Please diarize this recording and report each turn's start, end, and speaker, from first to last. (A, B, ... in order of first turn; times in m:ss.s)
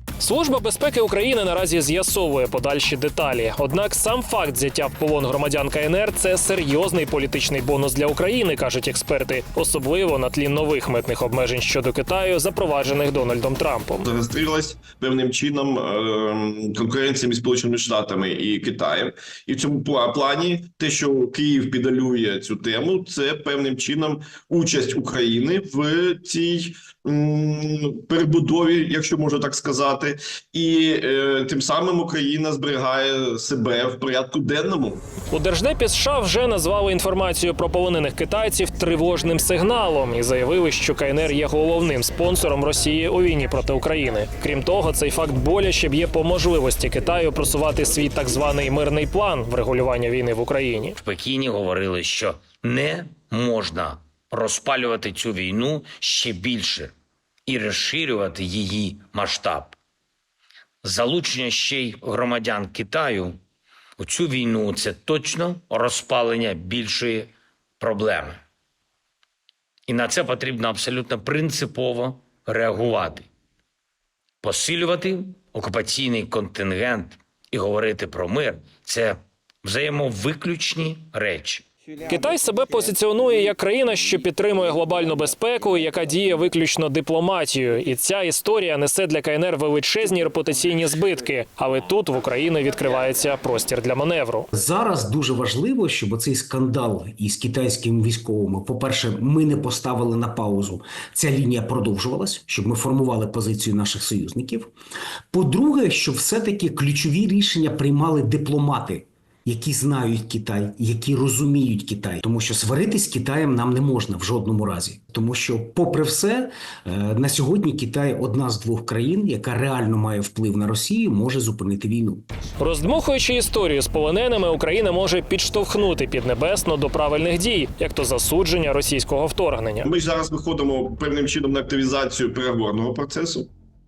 0:00.2-0:14.1 A
0:14.0-0:35.0 B
0:35.3-0:51.0 A
0:51.0-0:56.9 C
0:57.5-0:59.8 C
1:00.8-1:03.4 C
1:04.0-1:08.4 C
1:09.9-1:13.3 C
1:14.4-1:21.6 C
1:22.1-1:34.5 A
1:34.5-1:44.7 D
1:45.3-2:02.2 D
2:02.6-2:09.9 A
2:09.8-2:13.5 B